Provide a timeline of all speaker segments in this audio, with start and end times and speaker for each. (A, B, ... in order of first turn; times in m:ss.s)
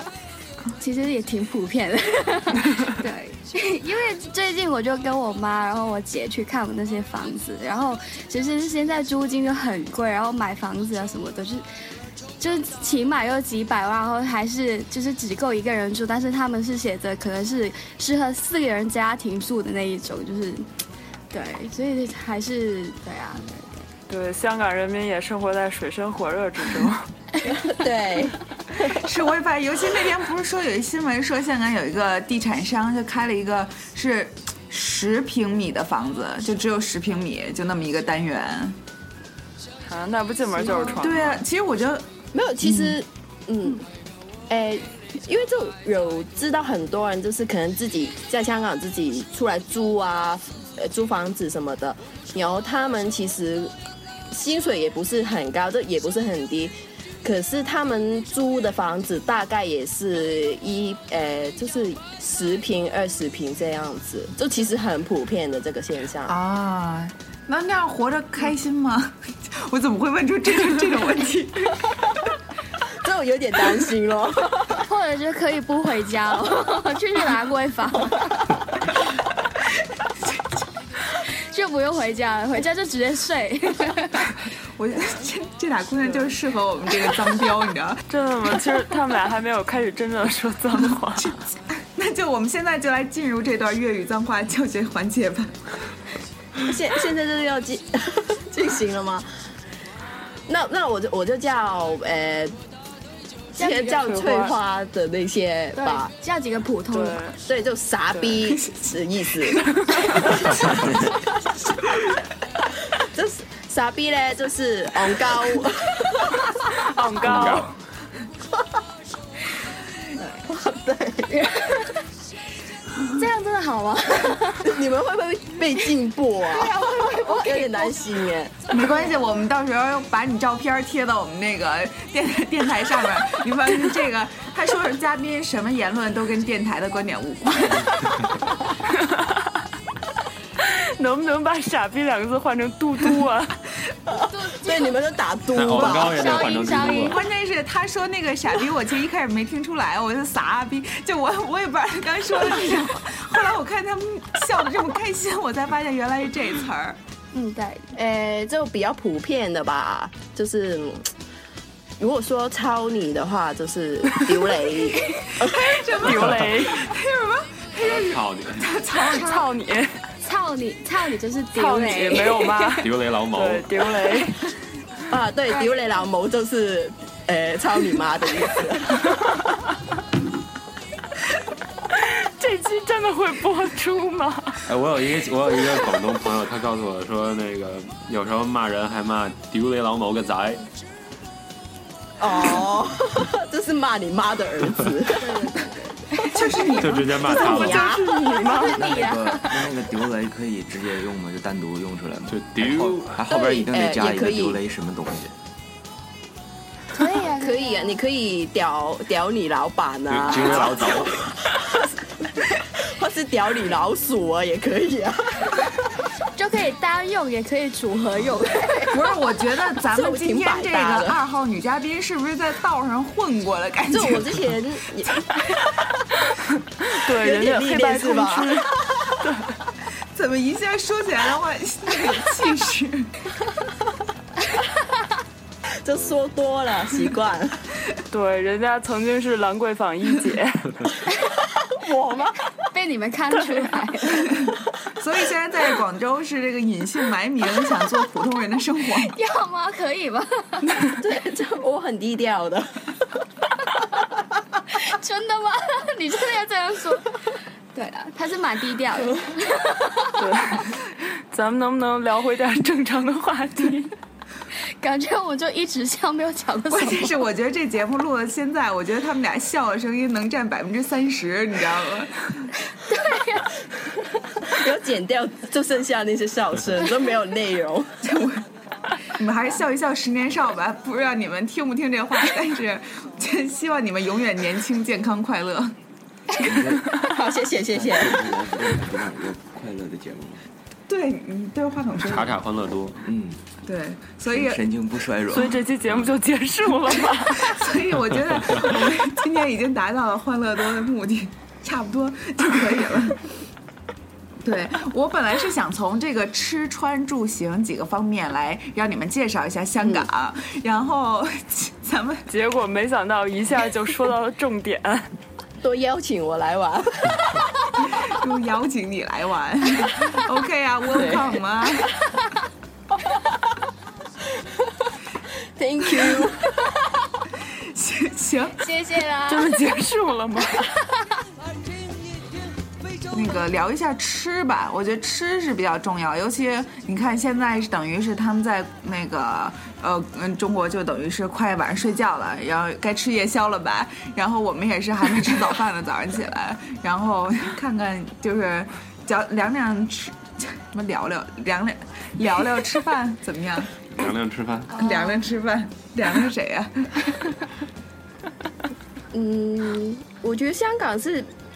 0:00.8-0:11.6 A
0:12.4-0:20.6 A
0:21.3-0:23.8 A
0:24.1-0:27.1 B
0:27.4-0:29.0 C
0:28.8-0:38.8 D
0:39.8-0:41.4 B
0:40.6-0:41.0 A
0:41.0-0:42.0 D
0:42.3-0:43.8 C
0:42.6-0:43.0 D
0:44.5-0:53.7 C
0:54.3-1:06.3 C
1:06.3-1:12.0 D
1:13.0-1:14.8 C
1:14.8-1:18.5 A
1:21.4-1:24.3 A
1:24.8-1:28.0 D
1:28.1-1:31.4 B
1:31.7-1:35.6 D
1:36.6-1:39.3 C
1:40.5-1:42.6 C
1:43.5-1:46.1 C
1:43.6-1:44.0 A
1:43.6-1:44.6 B
1:45.7-1:47.2 A
1:46.9-1:47.4 B
1:47.4-1:50.9 C
1:48.1-1:48.4 B
1:50.4-1:50.9 E
1:53.0-1:56.4 C
1:56.8-1:57.7 B
1:57.2-1:57.7 E
2:00.4-2:01.5 C
2:01.4-2:01.8 A
2:03.1-2:04.7 A
2:04.6-2:08.5 C
2:06.5-2:08.0 A
2:08.7-2:18.0 D
2:18.9-2:19.4 B
2:20.6-2:23.5 B
2:24.1-2:26.5 C
2:24.1-2:25.0 A
2:25.5-2:27.2 E
2:25.7-2:27.2 A
2:27.0-2:37.0 D
2:37.3-2:37.9 A
2:38.0-2:41.1 C
2:42.0-2:45.7 C
2:45.4-2:49.5 D
2:46.0-2:46.9 B
2:46.1-2:46.5 E
2:47.8-2:48.6 E
2:49.0-2:50.0 B
2:50.2-2:52.8 A
2:51.6-2:54.4 B
2:52.8-2:53.7 E
2:55.1-2:59.0 C
2:55.5-2:55.8 A
3:01.9-3:04.6 B
3:04.7-3:10.6 E
3:12.2-3:15.5 C
3:15.2-3:16.7 A
3:16.3-3:17.3 D
3:16.8-3:17.9 E
3:17.2-3:18.7 C
3:17.3-3:19.7 A
3:17.8-3:18.7 B
3:18.7-3:25.3 F
3:22.3-3:23.2 E
3:23.3-3:24.6 C
3:26.9-3:28.0 A
3:27.2-3:35.7 C
3:30.1-3:31.2 E
3:36.4-3:39.0 A
3:38.9-3:44.4 D
3:39.8-3:41.2 C
3:43.9-3:45.2 C
3:46.8-3:48.7 B
3:47.1-3:48.7 C
3:49.2-3:49.5 B
3:50.1-3:53.1 D
3:55.8-3:57.6 C
3:58.1-4:00.8 B
4:01.6-4:02.4 C
4:02.7-4:04.4 A
4:04.4-4:09.1 D
4:09.1-4:10.8 A
4:11.0-4:12.9 C
4:14.7-4:17.1 A
4:17.7-4:20.2 A
4:20.2-4:23.9 B
4:24.8-4:27.2 A
4:26.7-4:32.5 D
4:32.9-4:33.5 A
4:34.4-4:37.9 C
4:38.0-4:38.4 D
4:39.1-4:45.7 D
4:46.4-4:46.9 F
4:46.8-4:48.2 C
4:47.7-4:50.4 F
4:50.9-4:52.4 D
4:52.0-4:53.0 E
4:53.0-4:53.4 F
4:53.6-4:54.6 D
4:54.3-4:56.0 F
4:55.3-4:57.6 B
4:57.4-5:03.2 D
5:04.4-5:12.2 D
5:09.8-5:10.0 C
5:12.3-5:15.1 B
5:15.6-5:17.4 C
5:17.8-5:21.9 D
5:20.9-5:21.2 C
5:25.6-5:26.6 C
5:27.6-5:28.6 D
5:28.6-5:29.5 A
5:29.3-5:30.7 B
5:33.1-5:53.7 D
5:53.9-5:54.8 E
5:54.7-5:57.0 D
5:54.8-5:55.2 A
5:59.1-6:01.3 C